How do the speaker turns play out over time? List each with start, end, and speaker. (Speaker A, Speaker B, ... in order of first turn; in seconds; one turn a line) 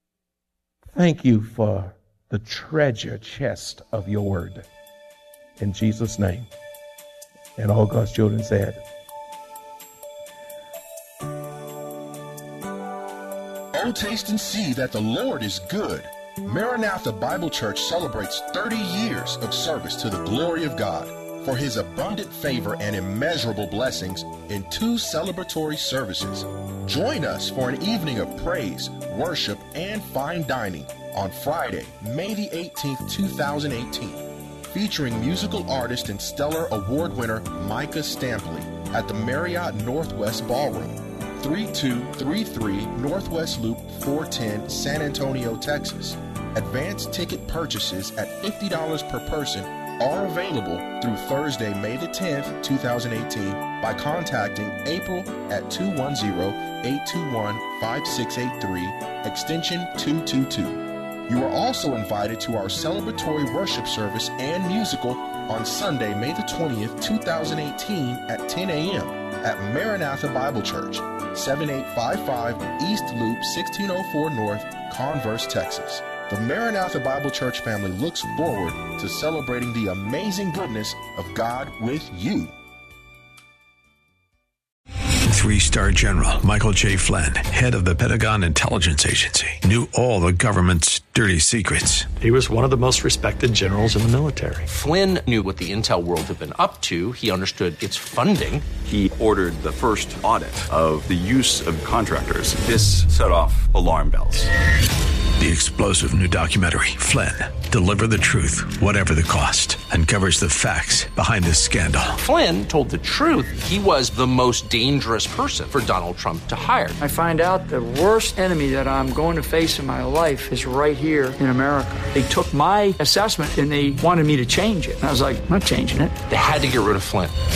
Speaker A: 0.9-4.7
Speaker A: 5.6-6.5
Speaker A: 7.6-8.8
Speaker B: 13.7-82.5
Speaker C: 85.3-92.2
Speaker D: 92.2-94.7
Speaker E: 94.7-98.7
Speaker F: 98.8-104.5
Speaker C: 105.4-112.2
Speaker E: 112.2-117.0
Speaker G: 117.0-126.2
Speaker E: 126.3-127.3